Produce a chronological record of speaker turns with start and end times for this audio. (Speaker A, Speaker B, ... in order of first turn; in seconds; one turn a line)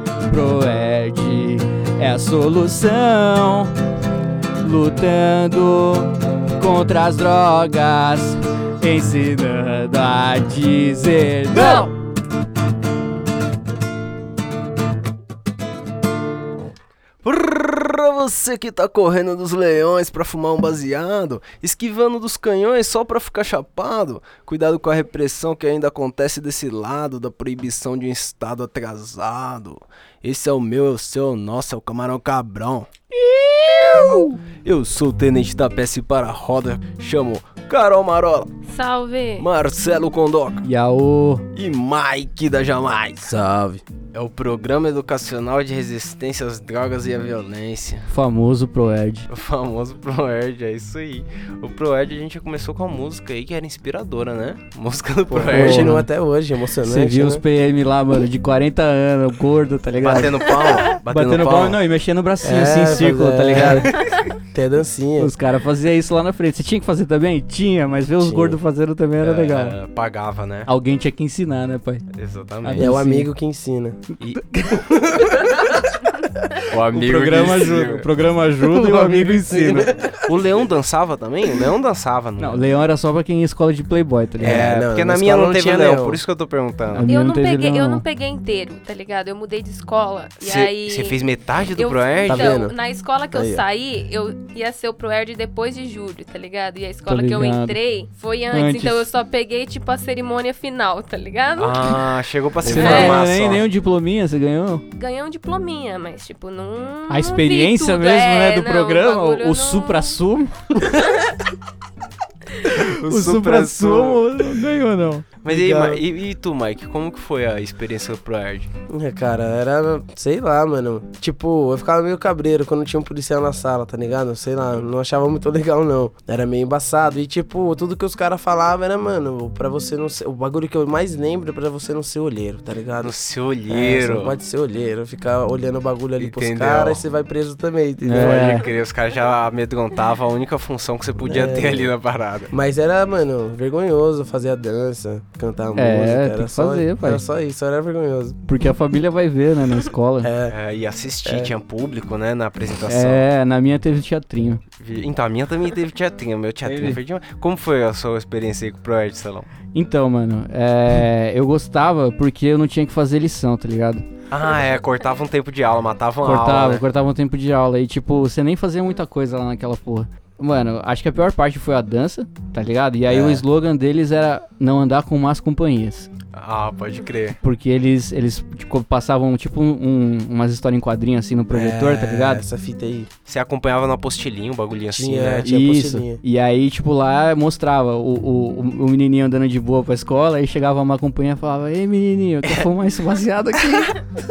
Speaker A: 0.3-3.7
Speaker A: 4.6-11.9
Speaker B: 11.5-11.9
Speaker C: 17.2-38.5
Speaker B: 38.7-39.5
Speaker C: 39.4-40.6
Speaker A: 40.6-41.4
Speaker C: 41.5-43.4
Speaker D: 43.2-43.8
Speaker C: 44.1-48.1
Speaker A: 48.1-49.3
Speaker C: 49.3-56.0
Speaker D: 55.3-57.4
Speaker A: 55.4-56.1
Speaker A: 56.8-63.9
Speaker C: 60.0-61.8
Speaker D: 62.4-64.0
Speaker D: 64.5-65.3
Speaker A: 65.2-69.8
Speaker D: 68.2-68.6
Speaker C: 69.2-70.7
Speaker A: 70.7-72.0
Speaker C: 72.1-72.9
Speaker A: 72.6-73.3
Speaker D: 72.7-74.0
Speaker C: 74.2-74.8
Speaker D: 74.7-75.8
Speaker C: 76.7-78.1
Speaker A: 76.9-79.9
Speaker D: 78.6-80.2
Speaker C: 80.2-82.7
Speaker A: 82.4-84.7
Speaker D: 84.4-86.2
Speaker C: 84.4-87.1
Speaker A: 86.9-88.0
Speaker B: 87.1-91.2
Speaker C: 90.4-92.6
Speaker B: 91.8-102.0
Speaker D: 92.3-92.7
Speaker D: 93.3-93.6
Speaker A: 97.0-97.8
Speaker A: 98.5-99.0
Speaker C: 101.6-103.7
Speaker A: 102.6-104.8
Speaker B: 102.7-103.2
Speaker D: 102.7-103.0
Speaker B: 104.9-110.2
Speaker A: 107.1-110.8
Speaker B: 110.9-111.3
Speaker A: 112.6-115.2
Speaker C: 112.7-114.4
Speaker C: 115.4-118.7
Speaker D: 115.5-116.0
Speaker D: 118.9-133.1
Speaker C: 133.0-134.3
Speaker D: 133.7-138.6
Speaker C: 136.2-137.0
Speaker A: 138.0-138.6
Speaker C: 138.1-142.5
Speaker D: 141.2-141.9
Speaker D: 142.5-148.4
Speaker A: 145.8-147.2
Speaker A: 148.5-150.3
Speaker D: 150.2-150.6
Speaker C: 150.5-153.2
Speaker D: 151.2-151.5
Speaker A: 152.9-154.6
Speaker C: 154.8-159.5
Speaker A: 156.6-157.0
Speaker A: 159.7-164.0
Speaker C: 164.3-166.8
Speaker A: 166.2-176.1
Speaker D: 173.1-173.4
Speaker C: 176.3-177.4
Speaker A: 177.4-182.4
Speaker D: 181.5-183.1
Speaker C: 183.2-185.4
Speaker D: 184.9-186.2
Speaker A: 185.4-194.1